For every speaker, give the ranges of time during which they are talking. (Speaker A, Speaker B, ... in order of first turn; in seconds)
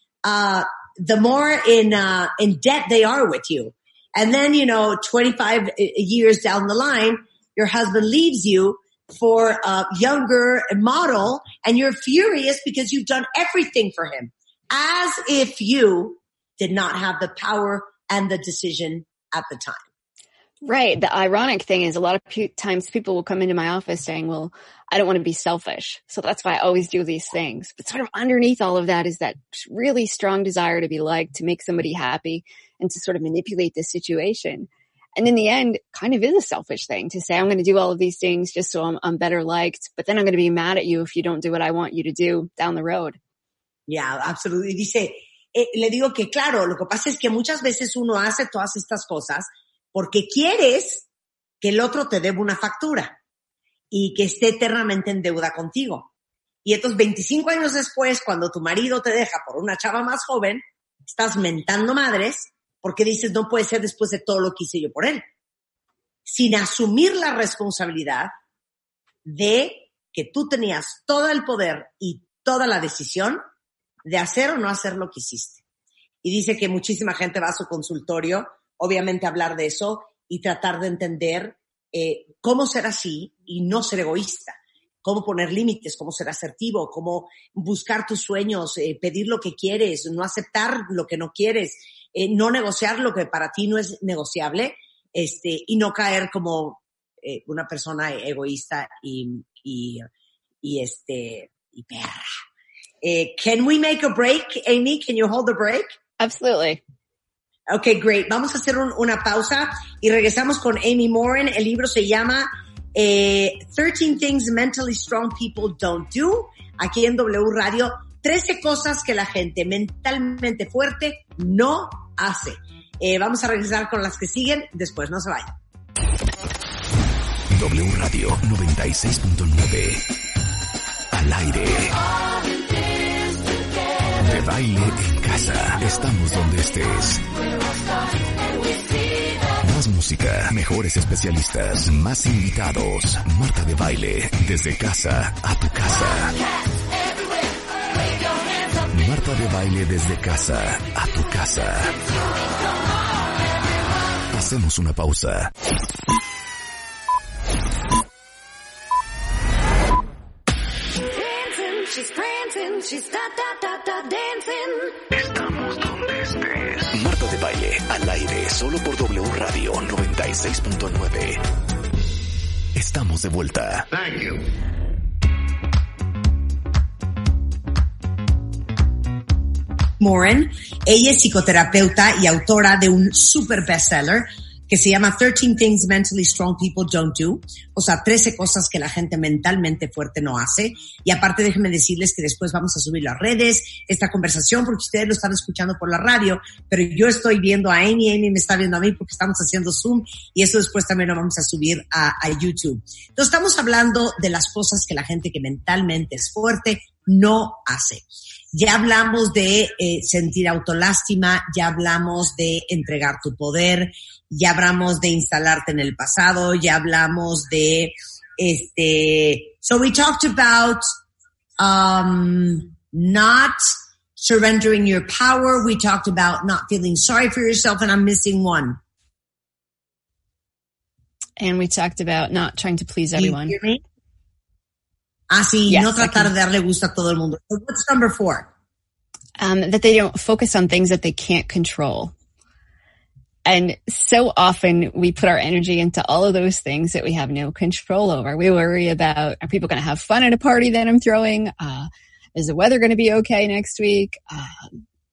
Speaker A: 0.2-19.8, 43.9-51.1, 51.6-53.2, 53.9-56.1, 56.6-65.3, 66.3-68.3, 69.2-73.4, 74.0-75.6, 76.2-100.0, 100.6-102.2, 103.0-105.9, 107.7-125.6, 180.0-220.9, 221.6-223.6, 224.2-228.8, 233.2-233.8, 235.3-238.5
Speaker B: 20.6-43.2, 106.2-106.8, 161.4-164.8, 231.4-233.6, 235.7-236.3, 239.4-242.1, 243.5-254.8
Speaker C: 127.5-130.0, 131.1-132.0, 134.2-137.2, 139.6-146.4, 148.9-152.0, 154.3-155.5, 165.1-171.4, 172.8-174.3